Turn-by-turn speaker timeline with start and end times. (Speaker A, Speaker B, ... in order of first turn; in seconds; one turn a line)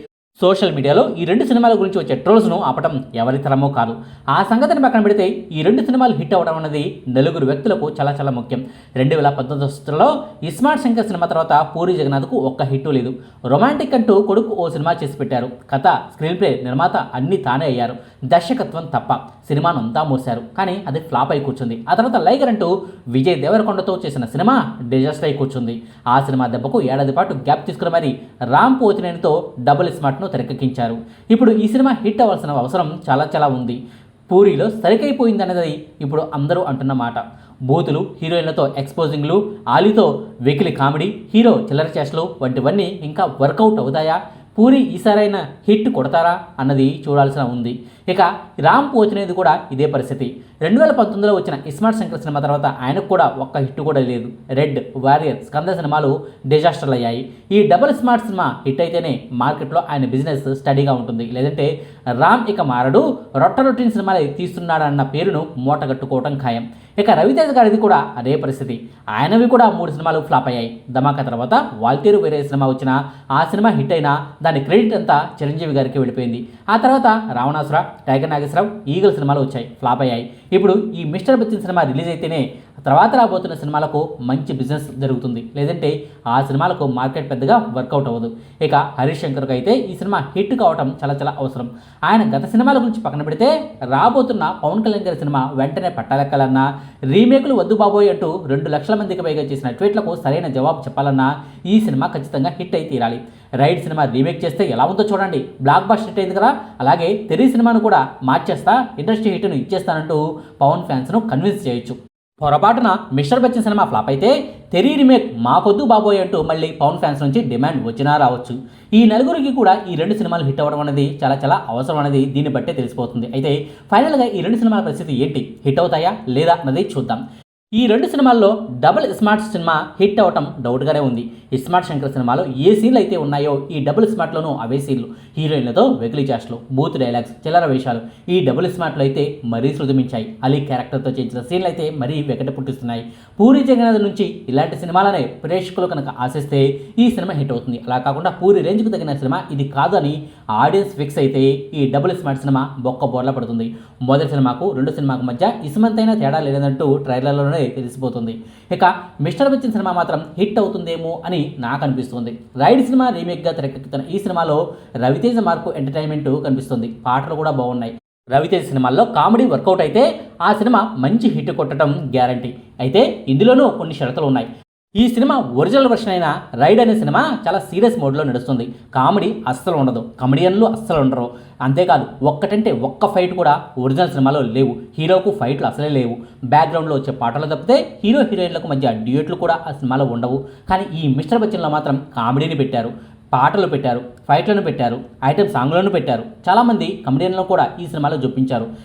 Speaker A: 0.4-127.2
Speaker A: 127.8-198.7